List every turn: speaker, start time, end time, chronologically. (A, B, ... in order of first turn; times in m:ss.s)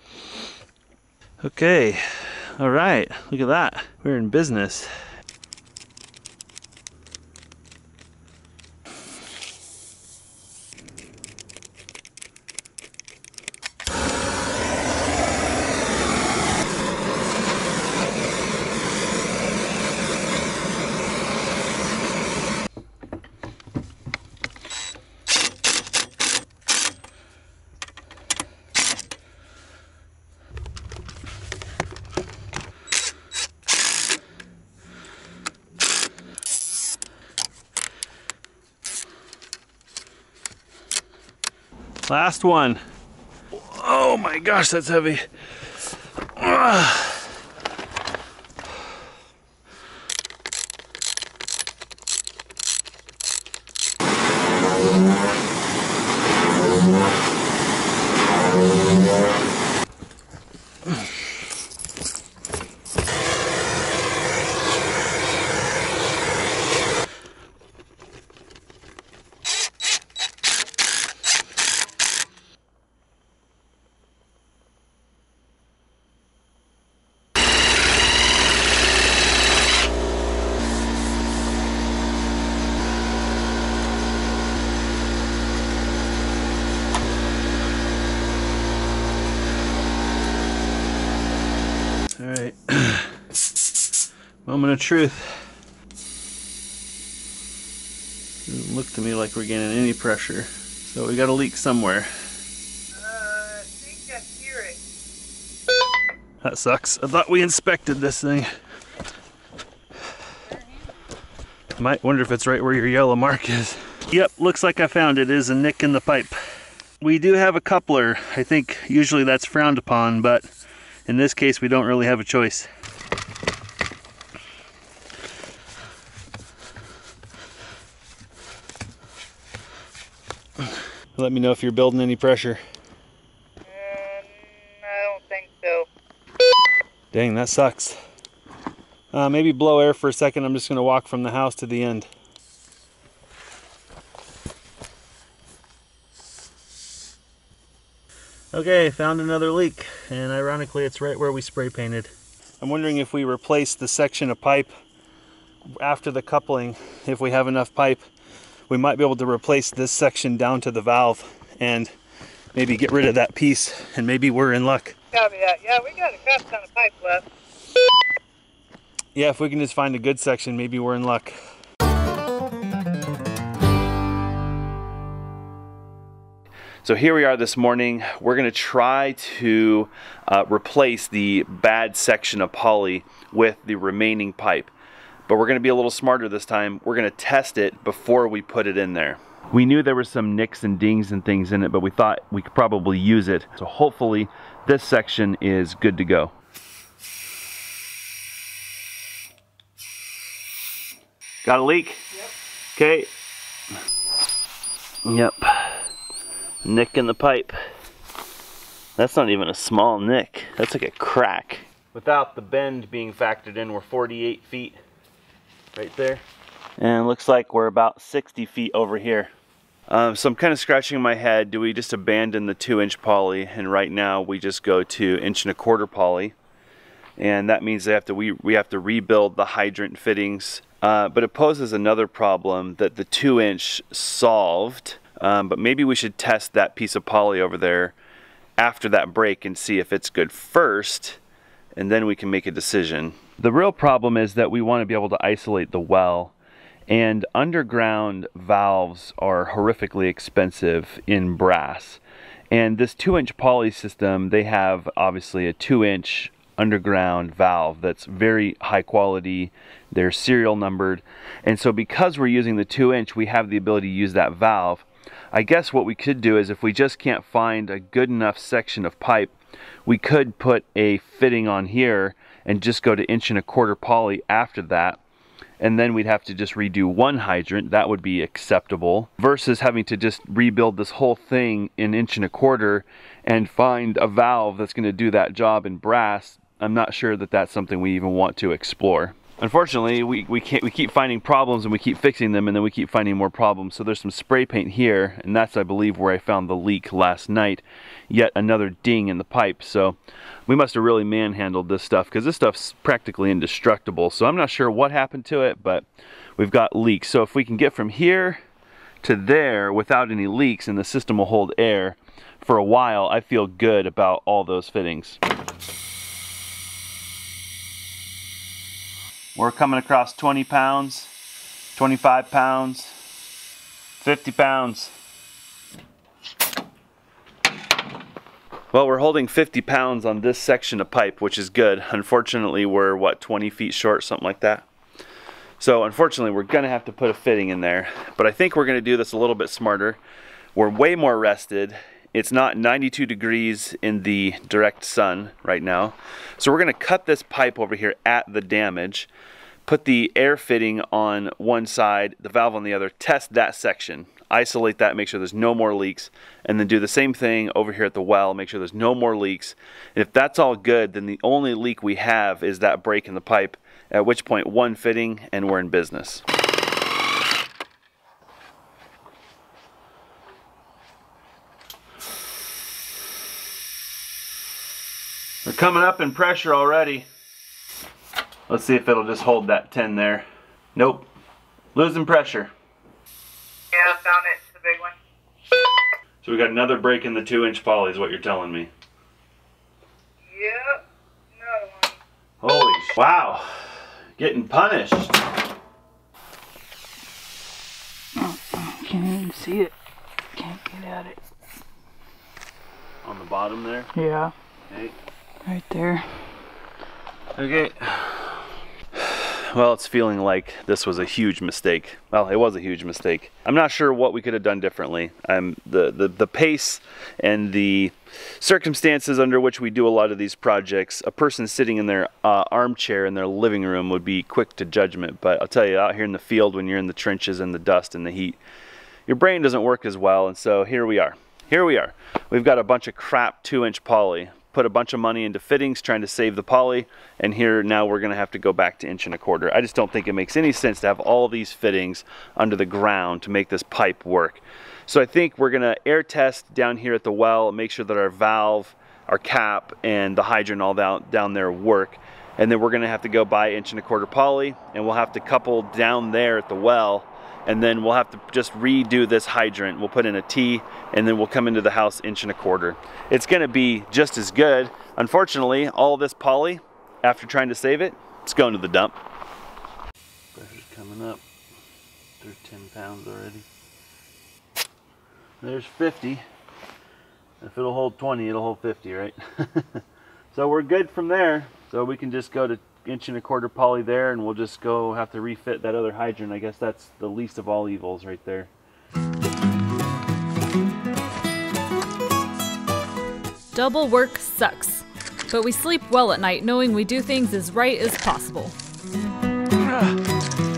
0:01.4-0:04.9 A
0:42.1-0:42.8 A
0:43.5-0:45.3 A
0:46.4-0:47.3 A
1:32.2-1:33.2 A
1:34.4-1:35.4 A
1:38.5-1:42.1 A
1:43.0-1:44.8 B
1:46.4-1:48.5 A
1:51.8-1:56.4 A
1:57.0-2:00.5 A
2:01.1-2:02.7 A
2:10.6-2:12.6 A
2:13.7-2:15.9 B
2:17.1-2:18.0 A
2:19.1-2:22.1 A
2:28.5-2:34.7 A
2:35.8-2:38.0 A
2:38.7-2:41.9 A
2:42.5-2:45.0 A
2:45.1-2:47.2 B
2:49.2-2:51.4 A
2:56.8-3:04.7 A
3:05.3-3:16.3 A
3:21.4-3:22.0 A
3:22.8-3:23.1 A
3:25.0-3:25.9 A
3:26.6-3:27.6 A
3:29.0-3:34.8 A
3:35.7-3:36.2 A
3:36.8-3:39.3 A
3:39.9-3:46.4 A
3:47.2-3:58.0 A
3:58.6-4:01.2 A
4:01.8-4:06.3 A
4:06.9-4:29.3 A
4:29.8-4:35.0 A
4:35.6-5:05.8 A
5:06.4-5:08.4 A
5:09.0-5:15.2 A
5:19.4-5:21.1 A
5:21.8-5:23.0 A
5:24.0-5:24.9 A
5:28.7-5:34.6 A
5:35.6-5:40.0 A
5:40.6-5:49.1 A
5:49.7-6:06.2 A
6:15.4-6:17.1 A
6:18.5-6:21.1 A
6:21.8-6:22.5 A
6:23.7-6:25.0 B
6:26.2-6:28.7 A
6:30.3-6:30.8 B
6:31.4-6:32.0 B
6:32.4-6:33.6 A
6:34.2-6:35.2 A
6:38.2-6:39.7 C
6:40.4-6:41.2 C
6:43.0-6:43.9 A
6:44.0-6:44.3 C
6:44.7-6:45.0 A
6:45.5-6:46.3 C
6:47.4-7:08.4 A
7:09.1-7:49.0 A
7:50.3-7:51.2 A
7:52.2-7:53.5 A
7:55.4-7:56.2 A
7:57.4-8:08.5 A
8:13.5-8:18.6 D